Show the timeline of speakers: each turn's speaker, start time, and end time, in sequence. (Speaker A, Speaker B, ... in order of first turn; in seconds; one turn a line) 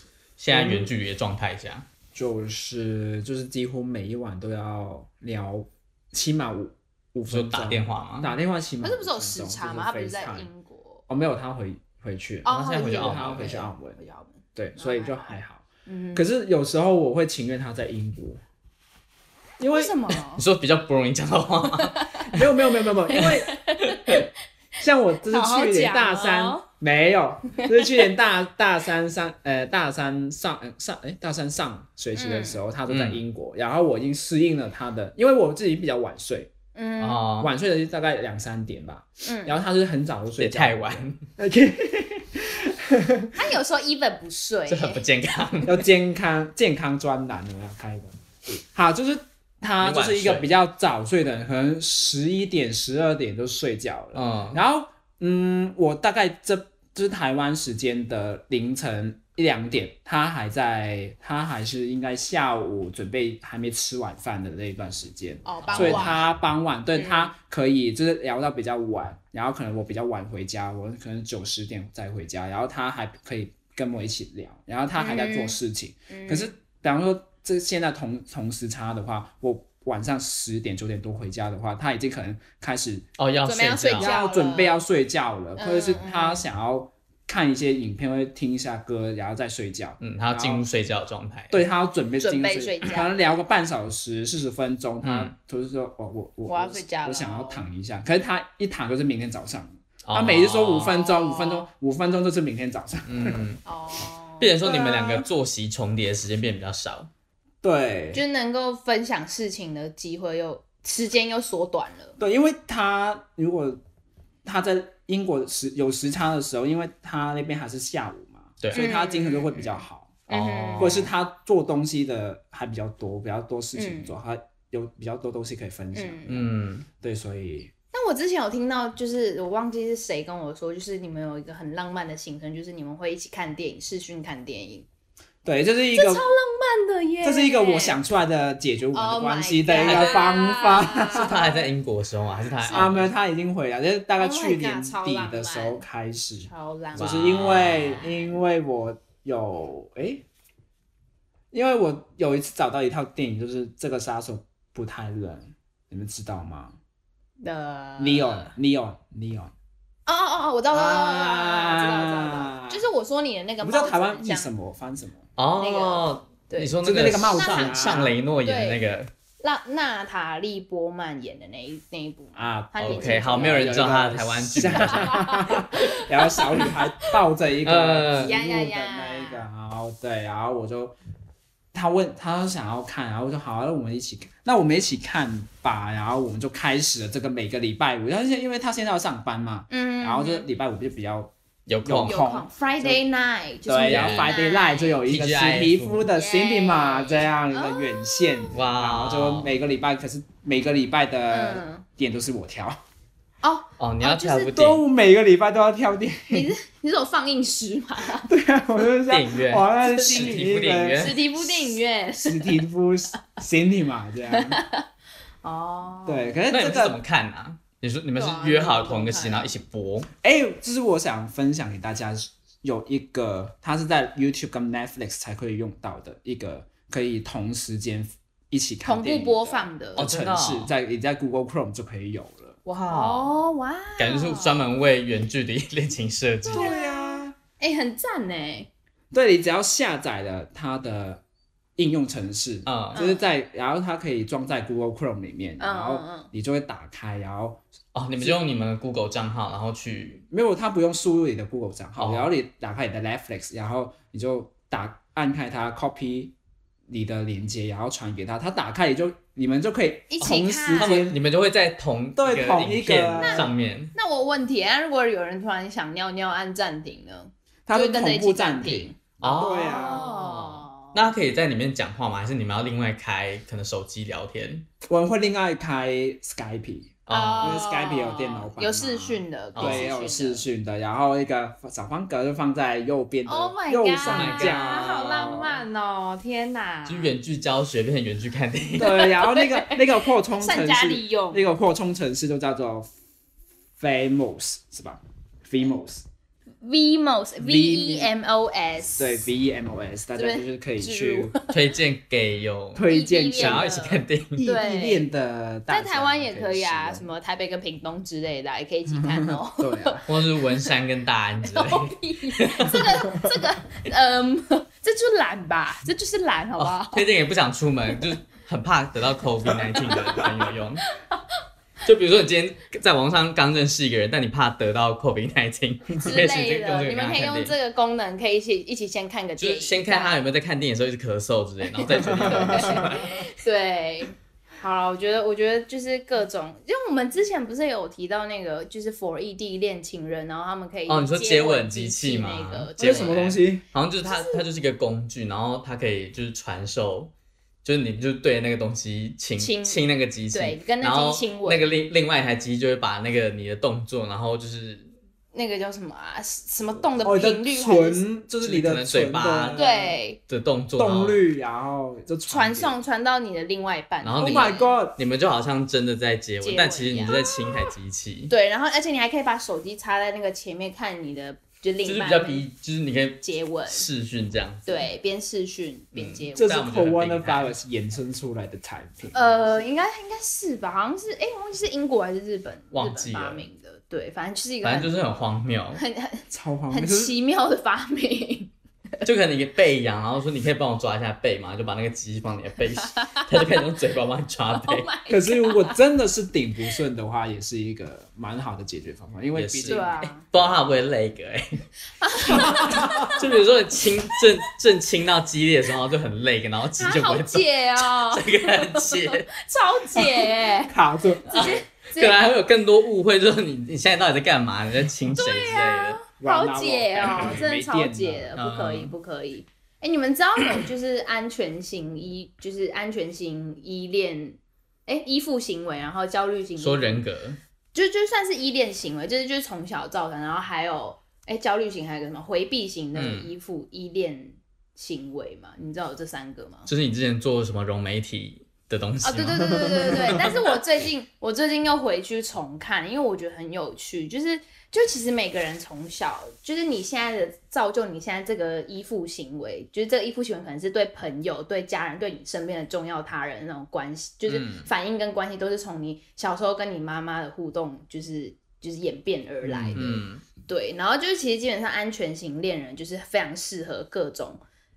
Speaker A: 0.4-1.9
Speaker B: 0.5-0.9
Speaker B: 2.1-10.5
Speaker A: 7.3-8.3
Speaker C: 8.8-11.1
Speaker B: 11.1-14.0
Speaker C: 12.4-16.3
Speaker A: 12.4-13.6
Speaker B: 14.5-18.4
Speaker B: 19.6-20.0
Speaker C: 19.7-20.4
Speaker A: 20.4-22.6
Speaker C: 21.8-22.3
Speaker B: 22.3-23.5
Speaker C: 23.0-24.3
Speaker B: 24.8-36.5
Speaker C: 25.2-26.6
Speaker C: 27.6-27.9
Speaker C: 32.1-32.6
Speaker A: 32.9-33.2
Speaker C: 36.7-37.2
Speaker A: 37.0-37.5
Speaker B: 37.4-43.4
Speaker C: 39.2-39.6
Speaker A: 40.4-41.2
Speaker C: 43.3-45.0
Speaker A: 44.7-45.8
Speaker B: 45.6-83.1
Speaker A: 49.8-50.5
Speaker A: 54.1-54.6
Speaker C: 65.4-66.3
Speaker A: 65.6-66.2
Speaker C: 66.9-67.3
Speaker C: 74.9-75.6
Speaker C: 76.1-76.5
Speaker A: 83.2-84.1
Speaker C: 83.4-84.8
Speaker B: 84.0-90.7
Speaker C: 85.5-86.5
Speaker A: 90.0-91.6
Speaker B: 91.5-103.4
Speaker C: 92.2-93.2
Speaker A: 95.0-95.3
Speaker C: 96.5-97.7
Speaker A: 100.0-101.0
Speaker C: 100.8-101.7
Speaker A: 103.0-103.6
Speaker C: 103.6-105.2
Speaker A: 104.4-107.1
Speaker B: 107.6-108.2
Speaker C: 108.1-112.2
Speaker B: 112.2-113.8
Speaker B: 114.4-120.2
Speaker A: 118.6-118.9
Speaker C: 118.7-121.1
Speaker A: 120.3-121.1
Speaker B: 120.8-126.5
Speaker C: 123.7-124.1
Speaker C: 125.9-126.4
Speaker A: 126.3-126.9
Speaker B: 127.0-127.7
Speaker C: 127.9-134.9
Speaker B: 135.4-136.2
Speaker C: 135.9-138.0
Speaker B: 137.2-141.5
Speaker C: 138.9-141.7
Speaker A: 139.7-140.3
Speaker A: 141.1-143.1
Speaker C: 142.6-143.0
Speaker B: 142.7-150.2
Speaker C: 144.2-145.8
Speaker C: 146.4-148.1
Speaker A: 146.9-148.1
Speaker B: 151.5-156.8
Speaker C: 157.4-158.5
Speaker B: 158.0-159.5
Speaker C: 160.1-164.5
Speaker B: 160.7-162.9
Speaker B: 163.6-165.3
Speaker A: 165.4-169.1
Speaker C: 165.6-166.8
Speaker B: 166.8-168.2
Speaker C: 167.3-168.8
Speaker C: 169.4-173.8
Speaker B: 172.3-180.9
Speaker A: 172.8-175.2
Speaker C: 174.6-177.1
Speaker A: 177.6-178.4
Speaker C: 178.2-179.4
Speaker B: 181.7-193.0
Speaker C: 189.7-190.4
Speaker A: 191.7-192.2
Speaker C: 192.1-195.0
Speaker B: 193.7-202.8
Speaker A: 193.8-194.4
Speaker A: 195.1-196.1
Speaker C: 196.1-198.5
Speaker A: 198.5-199.5
Speaker C: 201.3-201.8
Speaker C: 203.4-204.6
Speaker A: 203.8-204.8
Speaker B: 204.5-206.5
Speaker C: 206.3-208.3
Speaker B: 208.1-214.6
Speaker A: 209.1-211.2
Speaker C: 209.8-210.3
Speaker C: 210.9-212.6
Speaker C: 214.3-214.8
Speaker C: 215.4-216.4
Speaker B: 216.1-217.0
Speaker A: 216.5-220.1
Speaker C: 218.2-219.6
Speaker B: 220.2-232.6
Speaker C: 228.8-230.1
Speaker A: 230.0-230.7
Speaker A: 232.7-233.3
Speaker C: 232.7-234.7
Speaker A: 234.0-236.7
Speaker C: 236.4-238.7
Speaker B: 236.5-237.3
Speaker B: 239.1-241.2
Speaker B: 241.8-247.6
Speaker A: 242.7-243.0
Speaker C: 242.9-243.3
Speaker C: 245.6-246.3
Speaker A: 247.9-250.2
Speaker B: 250.3-256.3
Speaker A: 252.0-252.3
Speaker B: 256.9-261.2
Speaker C: 260.1-261.0
Speaker A: 260.2-263.9
Speaker B: 262.2-263.5
Speaker C: 263.2-271.0
Speaker B: 267.7-270.1
Speaker A: 269.2-274.7
Speaker B: 274.9-285.6
Speaker A: 277.1-277.6
Speaker C: 277.1-280.4
Speaker A: 279.5-279.9
Speaker C: 283.2-287.1
Speaker A: 284.0-285.6
Speaker A: 286.9-289.1
Speaker B: 288.8-292.9
Speaker C: 288.8-291.4
Speaker B: 293.8-296.0
Speaker C: 296.6-299.3
Speaker B: 297.4-298.1
Speaker B: 299.0-301.3
Speaker C: 300.1-301.6
Speaker A: 301.5-304.4
Speaker B: 302.7-307.1
Speaker C: 302.9-305.1
Speaker C: 305.7-310.7
Speaker B: 308.9-310.0
Speaker A: 310.1-313.2
Speaker C: 311.4-317.1
Speaker A: 316.6-320.8
Speaker C: 319.7-320.3
Speaker C: 320.9-321.2
Speaker A: 321.8-327.5
Speaker C: 326.0-330.2
Speaker A: 329.4-333.1
Speaker C: 331.7-343.2
Speaker B: 332.0-332.9
Speaker A: 340.9-347.1
Speaker B: 342.8-343.6
Speaker C: 344.0-344.4
Speaker A: 347.6-354.9
Speaker C: 349.4-351.7
Speaker C: 355.3-358.0
Speaker B: 357.0-359.9
Speaker A: 358.4-359.6
Speaker C: 359.5-360.2
Speaker A: 360.2-361.2
Speaker B: 360.8-362.8
Speaker C: 362.3-364.7
Speaker A: 364.0-368.3
Speaker B: 364.2-365.0
Speaker C: 366.4-367.7
Speaker C: 368.3-372.4
Speaker A: 371.8-374.9
Speaker C: 373.2-373.9
Speaker C: 374.6-376.7
Speaker A: 375.9-377.5
Speaker B: 376.4-379.4
Speaker C: 379.1-385.0
Speaker A: 382.7-383.5
Speaker A: 384.6-385.8
Speaker C: 385.8-388.5
Speaker B: 386.3-387.1
Speaker A: 389.0-394.9
Speaker C: 393.0-393.2
Speaker C: 394.6-395.8
Speaker B: 395.1-400.5
Speaker A: 399.3-401.7
Speaker C: 399.7-400.2
Speaker C: 402.0-403.2
Speaker A: 402.3-409.3
Speaker B: 402.3-403.1
Speaker C: 406.8-410.7
Speaker B: 410.6-411.5
Speaker C: 411.2-412.2
Speaker A: 411.3-416.0
Speaker C: 415.1-427.0
Speaker B: 416.2-418.3
Speaker A: 418.4-418.9
Speaker A: 426.6-427.4
Speaker C: 427.7-436.7
Speaker A: 432.9-433.3
Speaker A: 436.7-440.3
Speaker C: 439.0-464.4
Speaker A: 454.3-454.7
Speaker A: 459.4-460.2